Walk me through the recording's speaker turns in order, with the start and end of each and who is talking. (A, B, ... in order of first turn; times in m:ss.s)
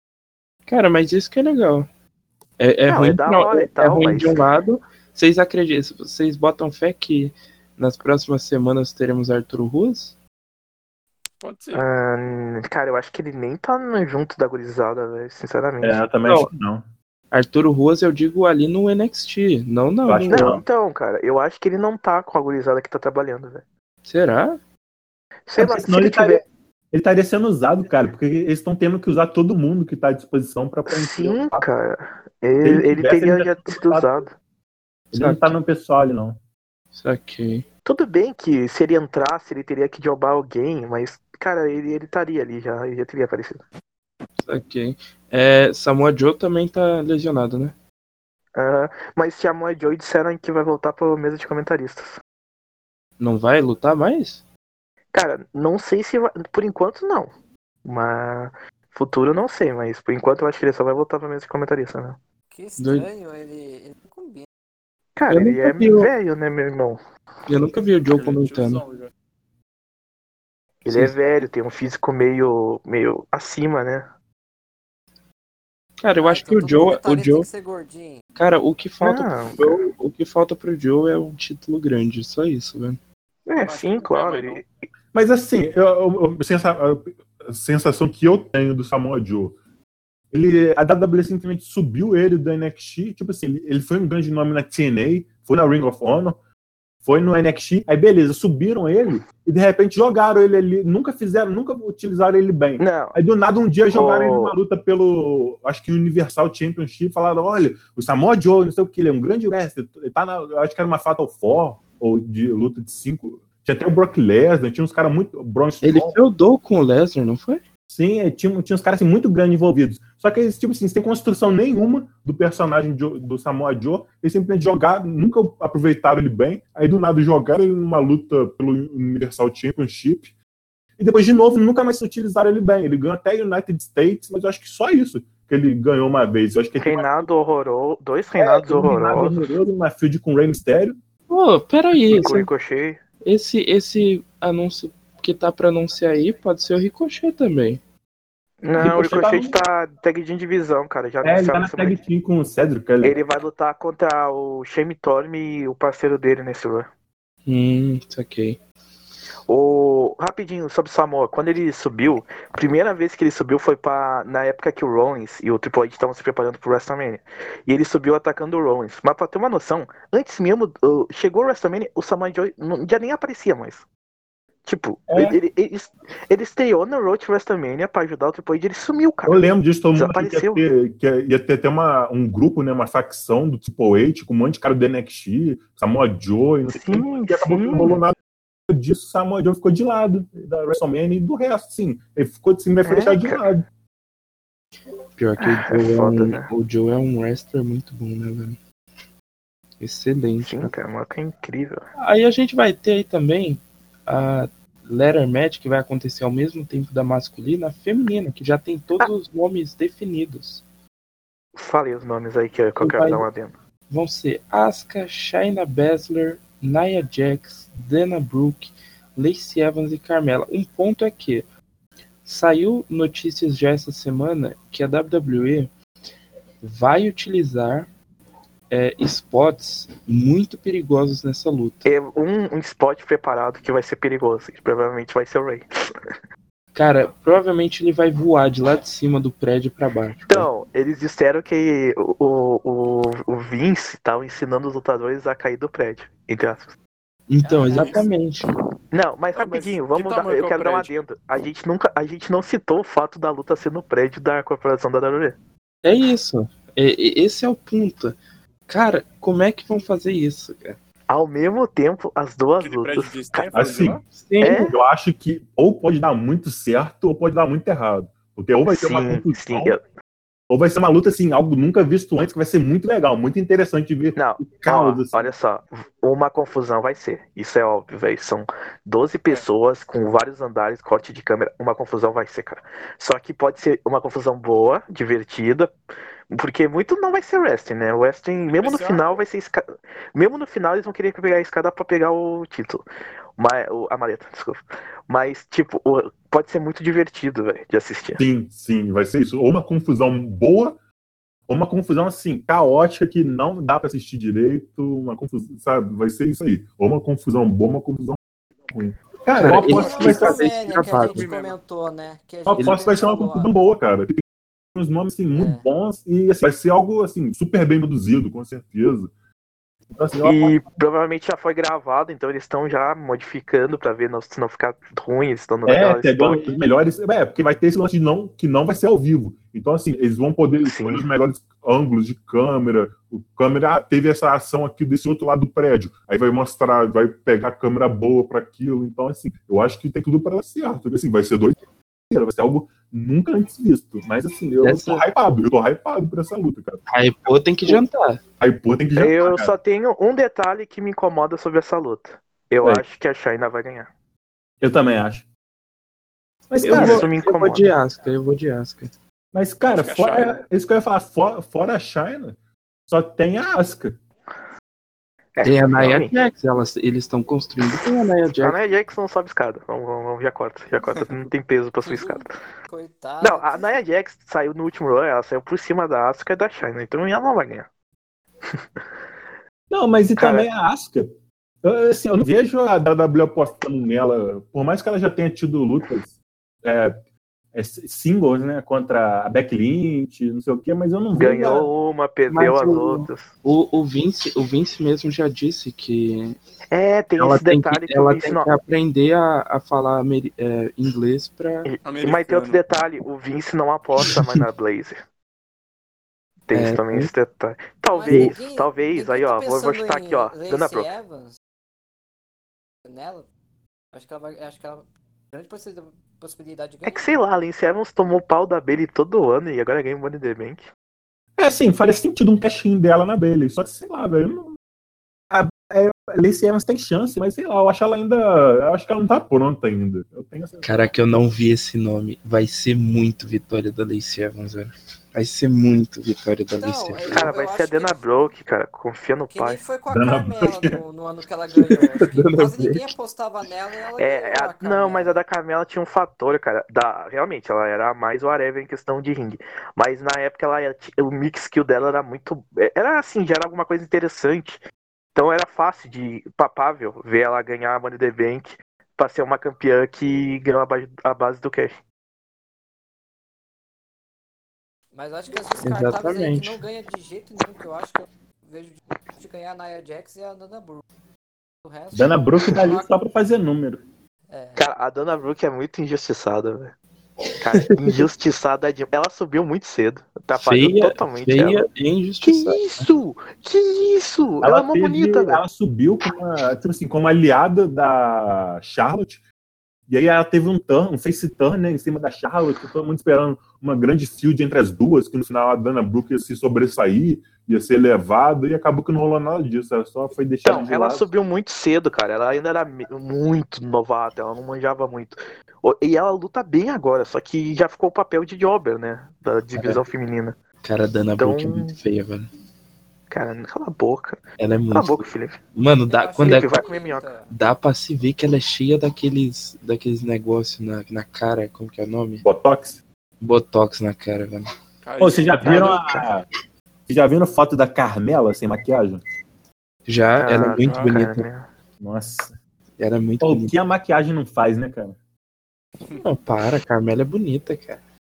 0:00.7-0:01.9 A
0:02.6-0:10.1 A
0:02.9-0:04.4 B
0:11.4-0:11.8 C
0:11.7-0:16.0 B
0:15.8-0:16.8 D
0:16.2-0:16.5 A
0:17.3-0:20.6 A
0:20.0-0:20.6 D
0:20.3-0:23.6 B
0:24.0-0:24.6 A
0:25.5-0:26.4 B
0:25.6-0:31.6 D
0:30.9-0:34.3 B
0:32.6-0:34.3 D
0:35.1-0:35.6 A
0:35.1-0:36.4 D
0:36.9-0:37.6 A
0:37.8-0:43.6 B
0:44.4-0:47.7 A
0:48.6-0:52.2 B
0:53.2-0:54.4 A
0:55.1-0:57.3 B
0:57.8-1:02.2 B
1:02.5-1:04.4 E
1:02.8-1:03.1 A
1:05.2-1:07.0 B
1:05.3-1:06.1 A
1:07.5-1:08.8 A
1:08.1-1:09.1 C
1:10.8-1:14.0 B
1:16.0-1:17.5 A
1:16.2-1:18.2 E
1:18.4-1:23.0 A
1:19.0-1:19.8 B
1:23.5-1:24.6 B
1:23.6-1:24.6 C
1:25.1-1:29.6 D
1:30.3-1:36.4 D
1:37.0-1:56.2 D
1:42.8-1:43.2 B
1:43.9-1:44.5 B
1:55.8-1:57.6 A
1:57.9-2:10.3 D
2:11.0-2:17.3 D
2:16.8-2:19.4 B
2:18.4-2:21.0 D
2:21.3-2:22.5 A
2:22.1-2:23.0 B
2:23.2-2:27.8 A
2:28.6-2:32.0 B
2:28.8-2:29.6 D
2:31.2-2:33.2 D
2:33.0-2:36.9 B
2:37.5-2:38.6 A
2:39.5-2:53.8 B
2:54.6-3:00.6 B
2:55.1-2:55.4 D
2:59.2-3:08.2 D
3:06.7-3:08.0 B
3:08.7-3:13.6 D
3:12.8-3:13.4 B
3:15.2-3:18.6 A
3:15.4-3:16.5 B
3:19.8-3:20.7 A
3:20.4-3:21.8 B
3:22.0-3:30.6 A
3:31.6-3:33.5 B
3:32.8-3:33.2 A
3:33.9-3:41.4 A
3:42.2-3:45.7 A
3:46.6-3:47.9 A
3:48.7-3:51.9 A
3:51.8-3:55.6 B
3:56.7-4:00.5 A
4:00.3-4:06.7 B
4:07.3-4:08.5 A
4:07.4-4:08.1 E
4:08.9-4:15.4 B
4:09.4-4:10.9 C
4:15.8-4:20.8 A
4:21.1-4:23.5 B
4:22.6-4:24.0 C
4:23.5-4:29.8 D
4:24.1-4:24.6 A
4:24.4-4:24.8 B
4:28.7-4:29.8 B
4:30.5-4:35.3 D
4:34.2-4:45.7 B
4:46.3-4:52.8 B
4:48.5-4:49.2 C
4:53.4-4:58.2 B
4:58.2-5:00.8 D
5:01.5-5:08.2 D
5:08.7-5:10.4 D
5:09.4-5:11.2 A
5:09.5-5:13.5 E
5:09.7-5:11.6 C
5:12.5-5:14.2 D
5:14.7-5:19.1 D
5:15.3-5:15.6 E
5:19.9-5:20.6 D
5:20.2-5:26.6 B
5:25.6-5:41.6 D
5:30.6-5:31.0 B
5:42.1-5:46.8 D
5:44.6-5:45.0 A
5:46.9-5:48.2 A
5:48.4-5:49.5 D
5:49.0-5:53.9 B
5:54.6-5:55.3 D
5:56.5-5:57.0 D
5:56.6-5:58.9 A
5:56.6-5:57.7 B
5:59.3-6:02.4 D
5:59.7-6:00.4 C
6:02.9-6:03.9 D
6:05.4-6:06.1 B
6:05.4-6:08.6 A
6:08.4-6:12.3 B
6:11.8-6:13.8 E
6:13.2-6:17.7 B
6:18.5-6:18.8 B
6:19.7-6:27.0 D
6:20.2-6:20.5 B
6:27.5-6:31.7 D
6:31.2-6:33.3 B
6:32.3-6:36.4 A
6:36.7-6:38.5 B
6:37.2-6:41.7 A
6:41.6-6:45.0 B
6:41.8-6:42.6 C
6:44.0-6:44.3 A
6:46.5-6:50.9 B
6:46.5-6:47.1 A
6:47.9-6:51.4 E
6:48.1-6:48.3 A
6:52.8-6:53.3 E
6:53.9-6:57.1 E
6:56.8-7:00.6 B
7:01.4-7:04.6 D
7:05.3-7:10.7 D
7:10.6-7:17.2 A
7:16.6-7:18.0 E
7:17.1-7:19.6 B
7:19.3-7:25.2 E
7:19.9-7:20.8 D
7:21.5-7:22.9 A
7:24.0-7:34.6 B
7:35.1-7:41.8 B
7:44.9-7:50.8 E
7:45.6-7:46.6 A
7:51.6-7:52.9 E
7:51.9-7:53.8 D
7:54.3-7:54.7 E
7:54.6-7:56.7 B
7:57.4-8:01.7 B
7:57.5-7:58.1 A
8:00.3-8:02.9 A
8:02.2-8:05.4 B
8:04.4-8:09.2 D
8:09.9-8:21.0 D
8:20.4-8:30.4 B
8:29.6-8:29.8 A
8:30.6-8:32.3 A
8:31.2-8:31.8 B
8:33.1-8:34.2 B
8:34.4-8:36.5 A
8:34.7-8:35.4 B
8:35.9-8:37.3 E
8:36.2-8:37.1 B
8:37.3-8:42.2 A
8:42.2-8:42.8 D
8:43.2-8:44.5 A
8:44.8-8:45.7 C
8:45.0-8:46.2 D
8:45.4-8:46.1 B
8:46.9-8:49.0 D
8:49.9-8:51.3 A
8:50.2-8:51.5 B
8:51.8-8:52.3 D
8:52.8-8:53.5 A
8:53.2-8:55.0 D
8:56.0-8:57.8 A